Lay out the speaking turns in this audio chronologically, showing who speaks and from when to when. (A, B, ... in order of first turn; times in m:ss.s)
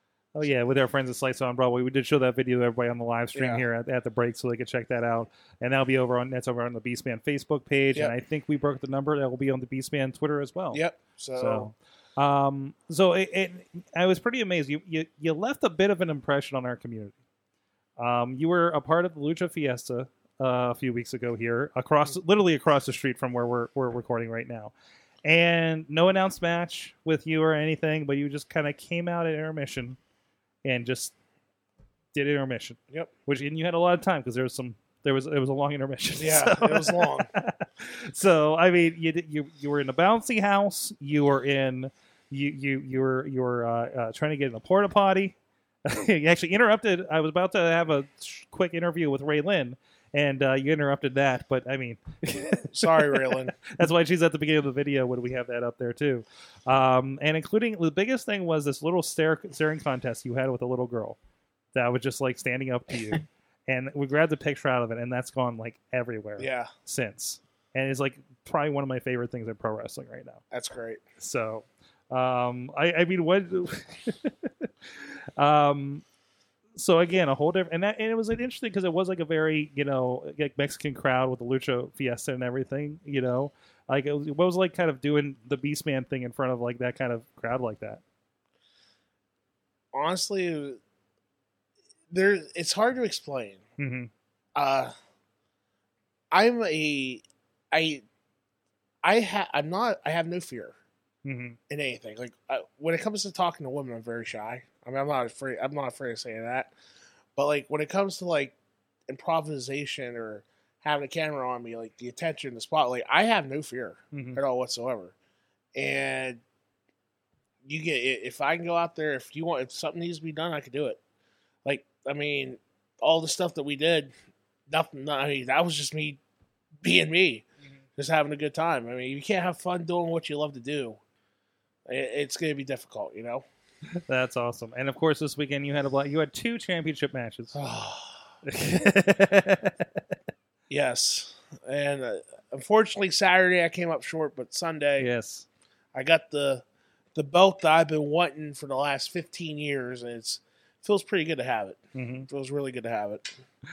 0:00.4-0:10.8 A
0:03.4-0:03.6 B
0:10.7-0:11.7 B
0:11.4-0:17.1 A
0:18.0-0:24.7 A
0:25.2-0:30.0 A
0:30.6-0:31.1 A
0:32.1-0:45.4 A
0:36.2-0:37.3 B
0:45.9-0:52.7 A
0:52.7-0:53.6 B
0:53.7-1:01.2 A
1:01.7-1:10.4 A
1:06.4-1:06.7 B
1:10.5-1:11.0 B
1:11.2-1:16.0 A
1:16.8-1:28.0 A
1:29.9-1:30.8 B
1:32.1-1:33.6 B
1:33.8-1:34.1 A
1:34.6-1:34.9 B
1:36.3-1:38.0 B
1:39.0-1:40.8 B
1:41.2-1:41.6 A
1:41.7-1:46.7 B
1:47.4-1:48.6 B
1:49.1-1:55.1 B
1:54.1-1:54.4 A
1:55.8-1:56.4 B
1:57.6-2:01.0 B
2:01.6-2:04.1 B
2:04.7-2:06.2 B
2:06.8-2:07.5 B
2:08.0-2:11.0 B
2:11.9-2:13.4 B
2:14.1-2:17.6 A
2:17.5-2:18.2 B
2:18.5-2:19.8 A
2:20.7-2:25.1 B
2:25.0-2:25.5 A
2:25.9-2:26.6 B
2:27.2-2:33.4 B
2:32.0-2:32.3 A